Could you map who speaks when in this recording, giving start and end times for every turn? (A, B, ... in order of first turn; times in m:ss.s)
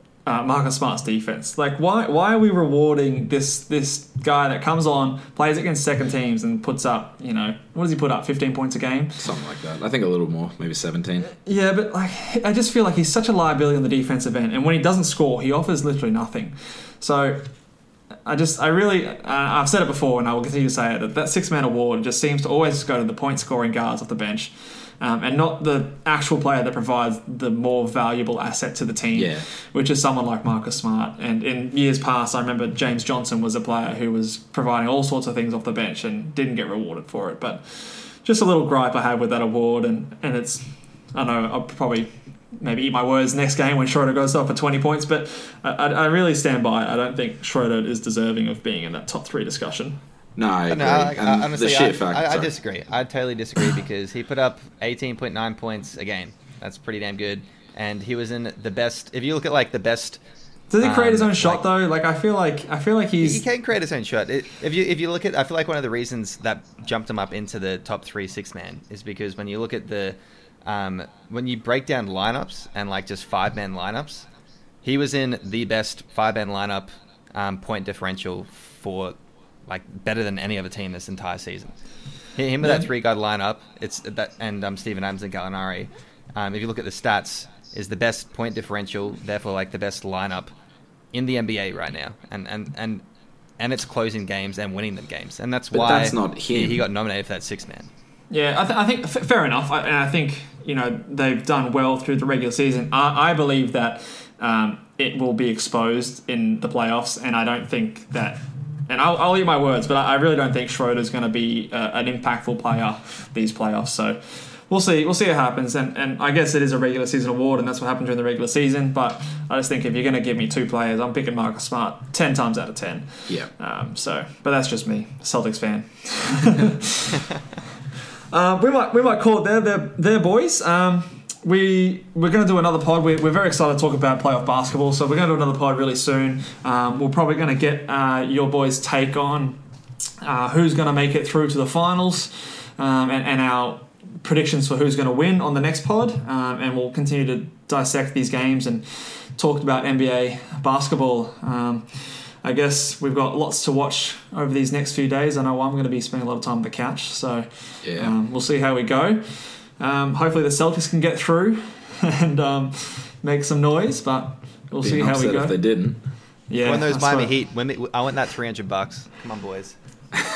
0:00.3-0:09.2 A
0:09.2-0:11.3 B
0:11.2-0:17.5 A
0:18.3-0:50.0 A
0:29.1-0:29.4 B
0:50.4-0:52.5 B
0:50.7-1:00.2 C
1:00.7-1:03.4 A
1:00.8-1:01.6 C
1:03.2-1:14.3 C
1:14.8-1:21.7 C
1:22.4-1:30.5 C
1:22.6-1:22.9 A
1:31.1-1:33.0 C
1:33.6-1:37.9 C
1:35.7-1:36.9 B
1:38.3-2:07.2 A
2:08.3-2:19.6 A
2:20.2-2:45.6 A
2:37.8-2:38.2 B
2:44.8-2:46.0 B
2:46.5-2:47.3 A
2:46.6-2:49.8 C